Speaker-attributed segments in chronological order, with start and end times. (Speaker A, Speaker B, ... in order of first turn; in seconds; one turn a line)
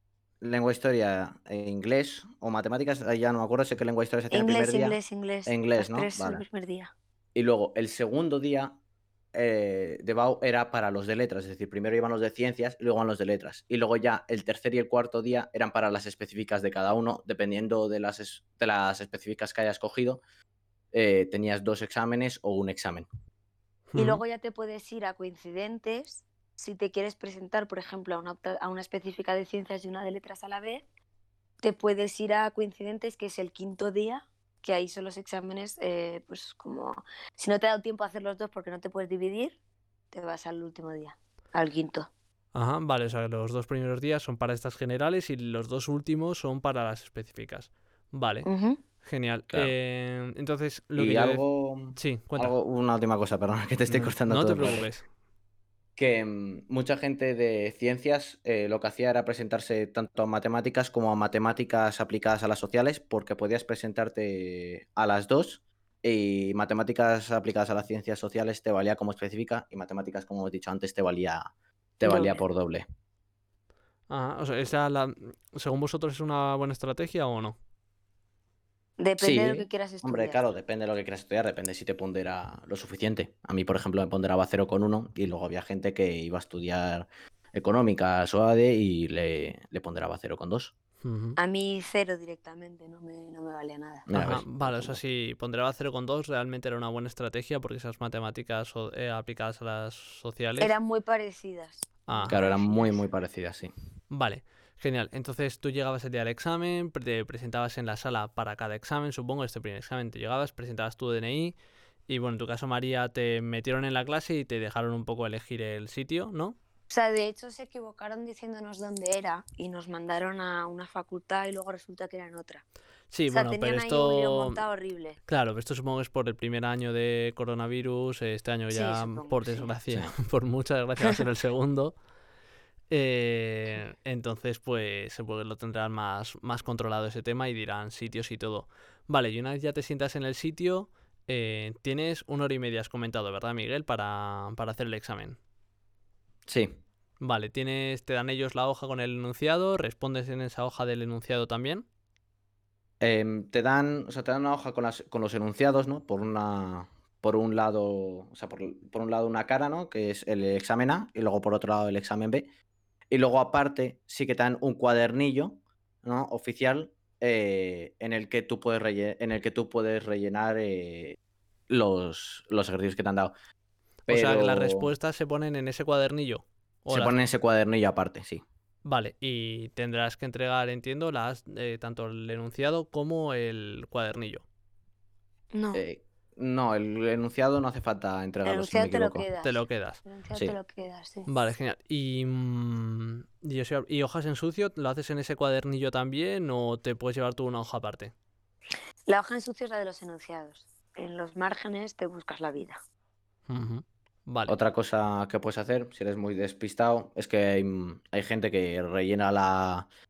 Speaker A: 0.4-6.4
Speaker B: 4.3-6.9
Speaker A: 7.3-8.8
Speaker A: 9.3-20.2
Speaker A: 20.9-23.1
Speaker C: 23.9-24.2
Speaker B: 23.9-30.9
Speaker B: 31.6-39.6
Speaker B: 40.1-42.1
Speaker C: 42.5-48.5
Speaker B: 48.5-48.8
Speaker C: 49.0-51.4
Speaker A: 51.0-54.9
Speaker C: 51.9-52.5
Speaker C: 53.9-55.1
Speaker A: 56.0-72.8
Speaker B: 72.0-72.4
Speaker C: 74.1-77.6
Speaker B: 79.0-80.4
Speaker A: 79.2-90.7
Speaker C: 91.0-91.4
Speaker B: 91.4-94.1
Speaker A: 94.1-95.0
Speaker C: 94.1-100.7
Speaker B: 100.6-103.0
Speaker C: 102.1-102.4
Speaker A: 102.2-103.7
Speaker C: 104.1-111.5
Speaker C: 112.1-116.6
Speaker B: 116.9-122.6
Speaker C: 123.1-124.6
Speaker B: 123.3-125.2
Speaker C: 125.3-131.9
Speaker B: 128.7-129.7
Speaker C: 132.9-145.4
Speaker A: 146.5-146.8
Speaker C: 147.2-151.9
Speaker A: 153.0-162.5
Speaker A: 163.1-171.2
Speaker A: 171.7-173.3
Speaker C: 174.1-177.2
Speaker A: 174.1-174.9
Speaker A: 176.9-178.4
Speaker C: 178.8-184.4
Speaker B: 185.5-185.8
Speaker A: 185.7-189.3
Speaker B: 188.4-191.3
Speaker C: 189.4-190.0
Speaker C: 191.3-198.1
Speaker B: 199.1-202.8
Speaker C: 203.5-204.6
Speaker A: 204.5-209.9